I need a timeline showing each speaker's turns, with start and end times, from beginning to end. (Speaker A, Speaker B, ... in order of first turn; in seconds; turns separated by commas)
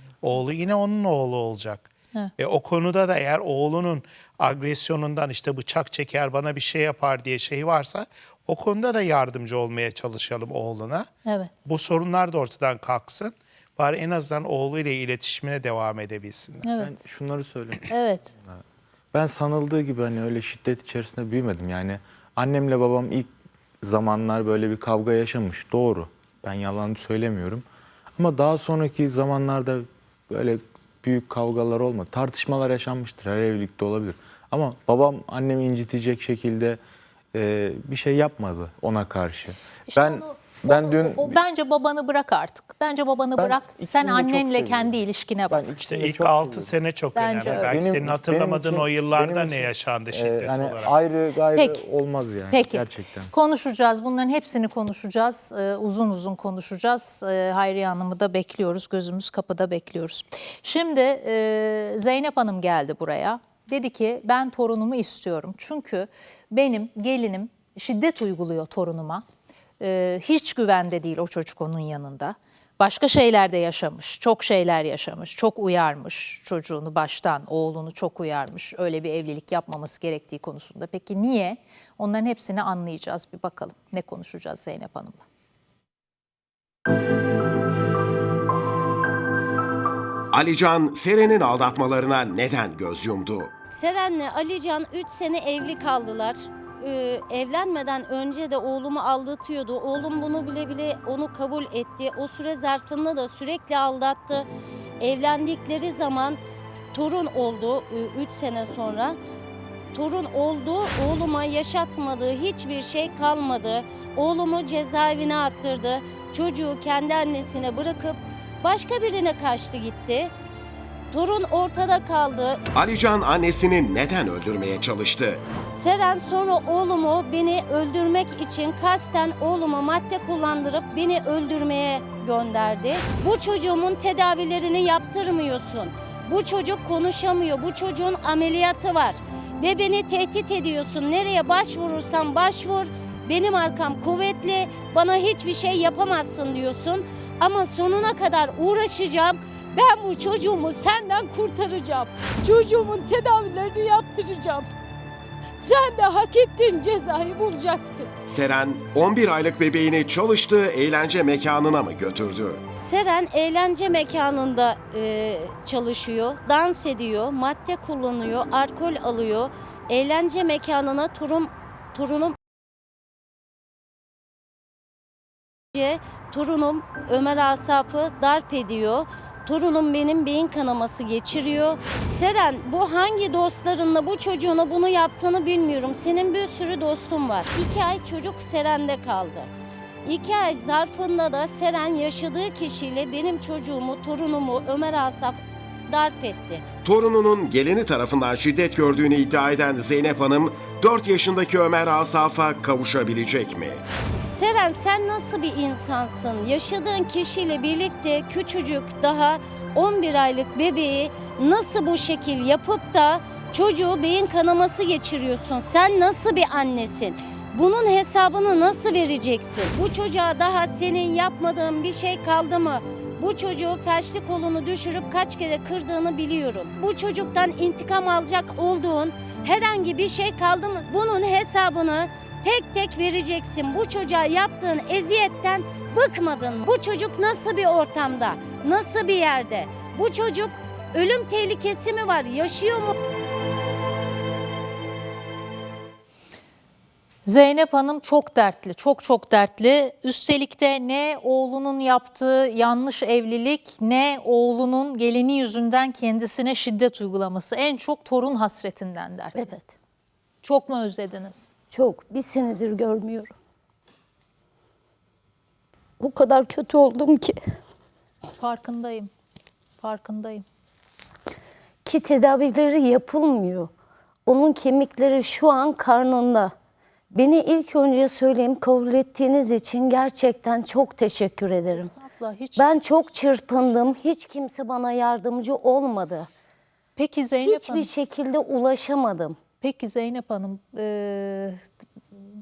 Speaker A: 0.2-11.1, Speaker B: 11.2-11.5, Speaker A: 11.7-16.6, Speaker B: 16.6-16.9, Speaker C: 16.7-23.3, Speaker B: 17.9-18.3, Speaker C: 23.8-27.6, Speaker C: 28.2-36.8, Speaker C: 37.3-41.4, Speaker B: 39.9-45.6, Speaker C: 43.4-46.7, Speaker A: 45.8-50.9, Speaker B: 47.1-47.8, Speaker C: 47.4-53.3, Speaker B: 51.5-51.8, Speaker B: 52.5-69.2, Speaker B: 69.8-85.2, Speaker D: 90.3-93.5, Speaker E: 93.7-104.5, Speaker E: 105.0-106.4, Speaker E: 106.9-109.2, Speaker E: 109.9-120.3, Speaker E: 121.1-122.6, Speaker D: 122.7-125.4, Speaker E: 125.7-154.7, Speaker E: 155.6-158.1, Speaker D: 158.3-162.6, Speaker E: 162.8-172.3, Speaker E: 175.7-189.5, Speaker E: 190.0-196.6, Speaker D: 196.8-203.8, Speaker E: 204.3-242.9, Speaker B: 247.2-259.5, Speaker E: 259.3-259.7, Speaker B: 260.4-261.5, Speaker E: 261.7-263.3, Speaker E: 266.0-267.4, Speaker B: 268.4-269.1, Speaker B: 269.8-270.4, Speaker E: 271.8-273.7, Speaker E: 274.2-276.5, Speaker E: 277.1-281.9, Speaker B: 281.7-282.7, Speaker E: 282.6-286.3, Speaker B: 286.9-287.9, Speaker E: 287.4-289.4, Speaker B: 289.6-291.6